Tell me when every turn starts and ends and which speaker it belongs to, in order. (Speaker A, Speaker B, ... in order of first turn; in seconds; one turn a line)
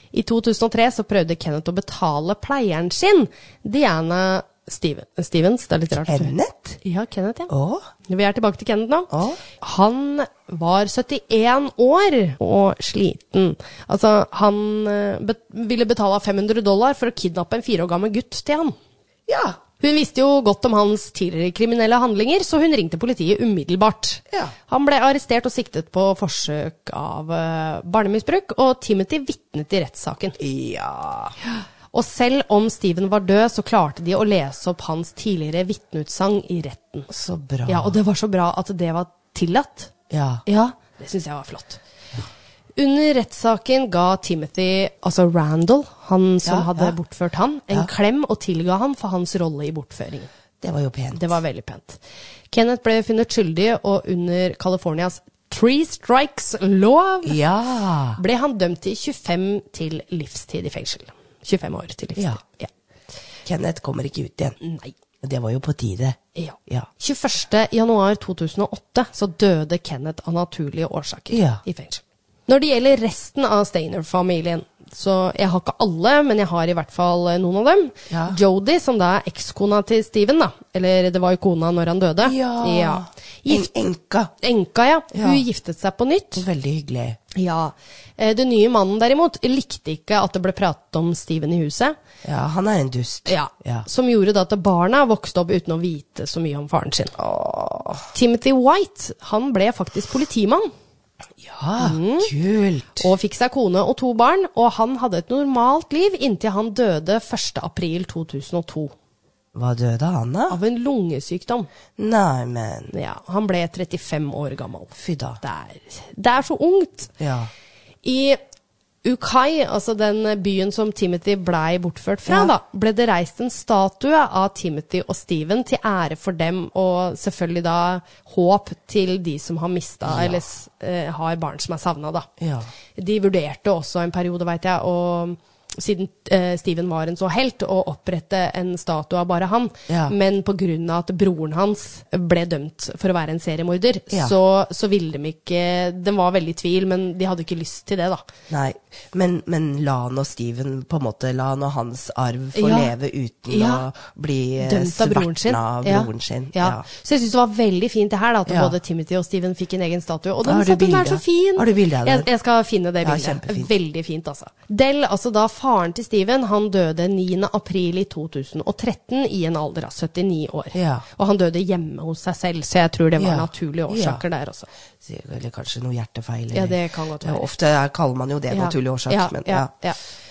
Speaker A: 0.1-7.5
Speaker B: 6.0-6.8
Speaker B: 7.5-7.8
Speaker A: 8.1-18.8
Speaker B: 9.1-9.4
Speaker B: 19.3-19.6
Speaker A: 19.8-30.4
Speaker B: 30.4-31.4
Speaker A: 31.4-37.1
Speaker B: 37.1-38.0
Speaker A: 37.7-39.9
Speaker B: 40.1-40.4
Speaker A: 40.5-41.8
Speaker A: 42.8-50.3
Speaker B: 46.5-46.9
Speaker B: 50.6-51.4
Speaker A: 51.1-52.0
Speaker A: 52.5-57.4
Speaker B: 57.2-58.2
Speaker A: 58.2-62.7
Speaker B: 63.5-64.6
Speaker A: 64.6-64.9
Speaker B: 65.2-66.9
Speaker A: 66.3-83.7
Speaker B: 71.3-71.6
Speaker B: 78.1-78.4
Speaker B: 82.2-84.3
Speaker A: 84.4-86.5
Speaker B: 85.1-85.4
Speaker B: 86.3-87.2
Speaker A: 87.3-92.0
Speaker B: 92.2-93.9
Speaker A: 93.3-97.2
Speaker B: 97.2-98.1
Speaker A: 98.1-100.7
Speaker B: 101.4-103.1
Speaker A: 101.8-102.3
Speaker A: 103.0-108.9
Speaker B: 109.5-110.6
Speaker A: 110.5-111.7
Speaker B: 112.0-112.9
Speaker A: 112.9-117.2
Speaker B: 115.0-115.4
Speaker B: 117.2-117.5
Speaker A: 118.0-118.4
Speaker A: 119.0-132.3
Speaker B: 122.3-122.5
Speaker B: 130.1-130.4
Speaker B: 132.4-132.7
Speaker A: 133.0-148.2
Speaker B: 139.9-140.1
Speaker B: 148.5-156.8
Speaker A: 152.6-152.9
Speaker A: 153.5-153.8
Speaker A: 154.6-174.7
Speaker B: 158.5-158.8
Speaker B: 160.4-162.3
Speaker B: 163.0-163.7
Speaker B: 170.7-171.1
Speaker B: 173.2-174.2
Speaker B: 175.0-179.7
Speaker A: 176.5-177.5
Speaker A: 178.5-180.0